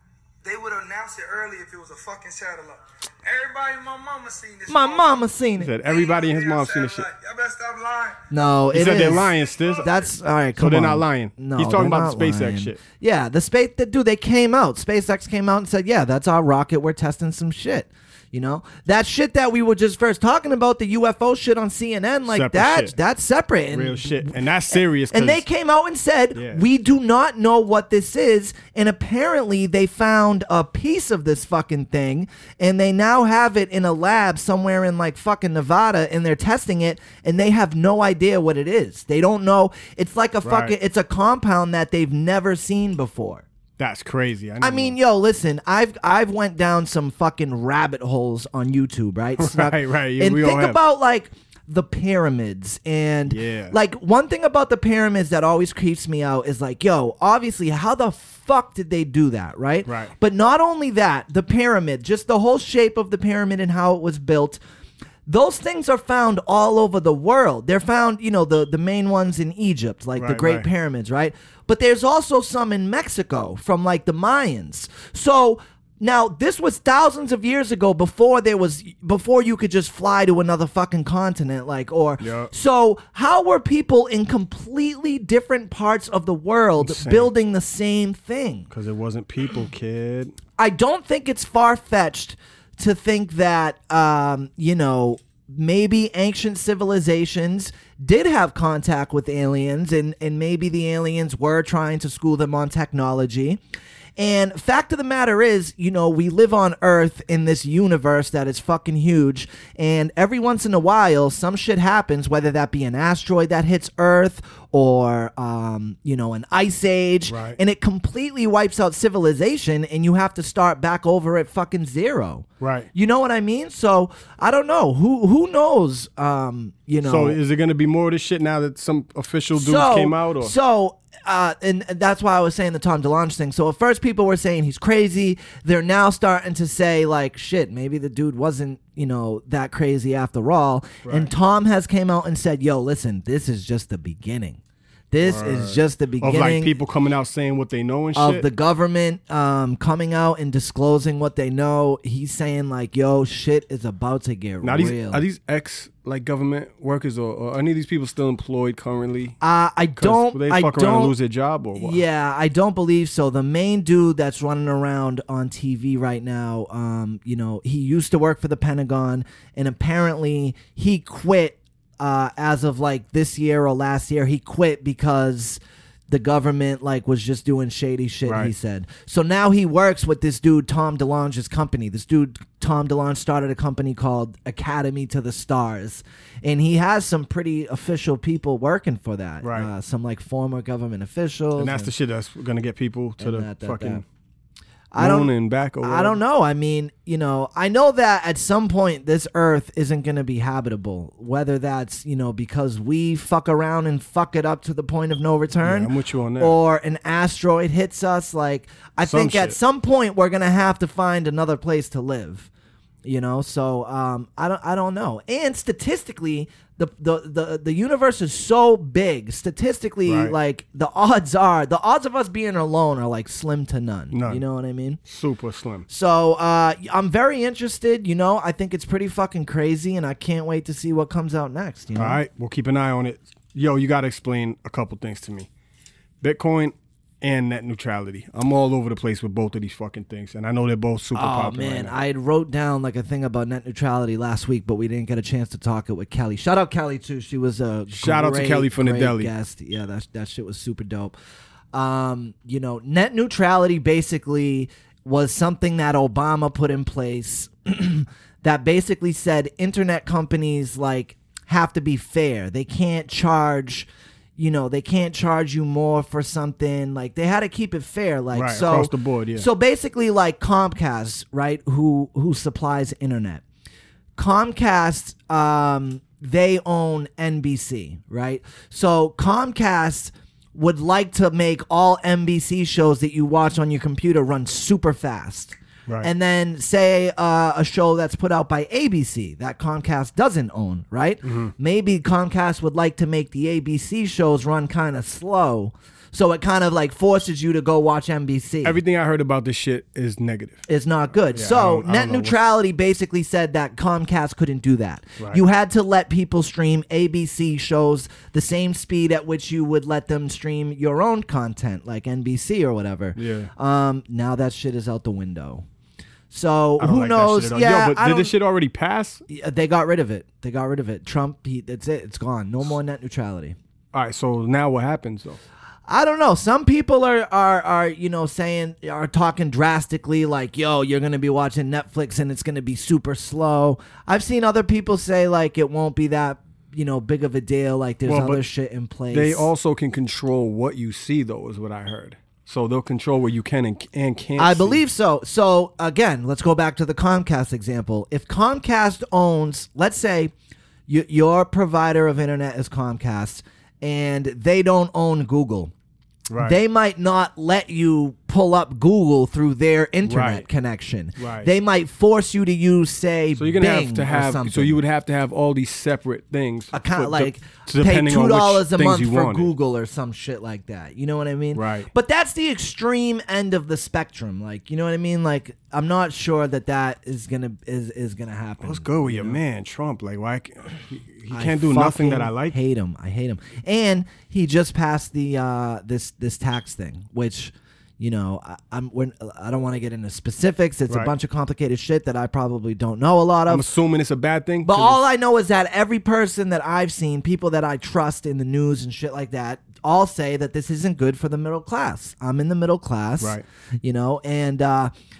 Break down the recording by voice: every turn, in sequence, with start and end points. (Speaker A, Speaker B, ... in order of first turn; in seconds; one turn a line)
Speaker A: 0.4-5.2
Speaker B: 4.7-5.7
Speaker C: 5.6-7.1
Speaker A: 5.8-8.2
Speaker B: 8.3-43.4
Speaker C: 8.7-9.9
Speaker A: 8.9-9.9
Speaker C: 10.6-12.8
Speaker C: 22.3-22.9
Speaker C: 23.7-25.4
Speaker C: 26.3-26.6
Speaker C: 40.4-40.7
Speaker C: 43.8-45.0
Speaker B: 44.6-64.6
Speaker C: 49.4-50.8
Speaker C: 53.3-53.8
Speaker C: 59.9-60.1
Speaker B: 65.3-88.7
Speaker C: 70.2-70.7
Speaker C: 82.2-82.5
Speaker C: 86.8-87.3
Speaker C: 88.7-90.3
Speaker B: 90.6-103.6
Speaker B: 104.2-127.4
Speaker C: 117.3-117.6
Speaker C: 122.6-122.9
Speaker C: 127.0-130.5
Speaker B: 129.6-144.6
Speaker C: 141.0-141.3
Speaker B: 145.1-146.7
Speaker C: 145.2-148.5
Speaker B: 148.1-155.2
Speaker C: 154.6-159.4
Speaker B: 159.4-161.1
Speaker C: 160.0-162.0
Speaker B: 161.8-191.9
Speaker C: 178.2-178.5
Speaker C: 189.4-189.7
Speaker C: 191.6-194.0
Speaker B: 193.2-194.0
Speaker B: 194.9-195.3
Speaker C: 195.0-196.2
Speaker B: 195.8-212.5
Speaker C: 205.6-206.6
Speaker C: 209.1-209.6
Speaker B: 213.0-225.0
Speaker C: 220.1-220.3
Speaker C: 224.1-224.4
Speaker C: 225.0-225.8
Speaker B: 225.9-232.2
Speaker C: 232.0-235.5
Speaker C: 236.2-241.9
Speaker B: 241.1-251.2
Speaker C: 248.0-249.3
Speaker B: 251.7-273.4
Speaker C: 268.3-269.5
Speaker B: 274.2-298.8
Speaker C: 291.2-291.5
Speaker C: 298.6-300.6
Speaker B: 300.7-315.6
Speaker C: 301.3-302.4
Speaker C: 313.1-313.5
Speaker B: 316.3-318.3
Speaker C: 316.8-319.2
Speaker B: 319.3-323.6
Speaker C: 323.9-325.4
Speaker B: 325.9-339.5
Speaker C: 338.1-338.4
Speaker C: 339.1-344.8
Speaker B: 344.4-350.3
Speaker B: 350.9-355.7
Speaker C: 356.3-356.6
Speaker B: 356.4-364.8
Speaker C: 360.1-360.5
Speaker C: 361.2-361.5
Speaker C: 363.4-369.5
Speaker B: 366.7-379.4
Speaker C: 371.5-371.9
Speaker C: 378.6-382.5
Speaker B: 381.3-393.6
Speaker C: 393.5-395.0
Speaker B: 394.6-404.9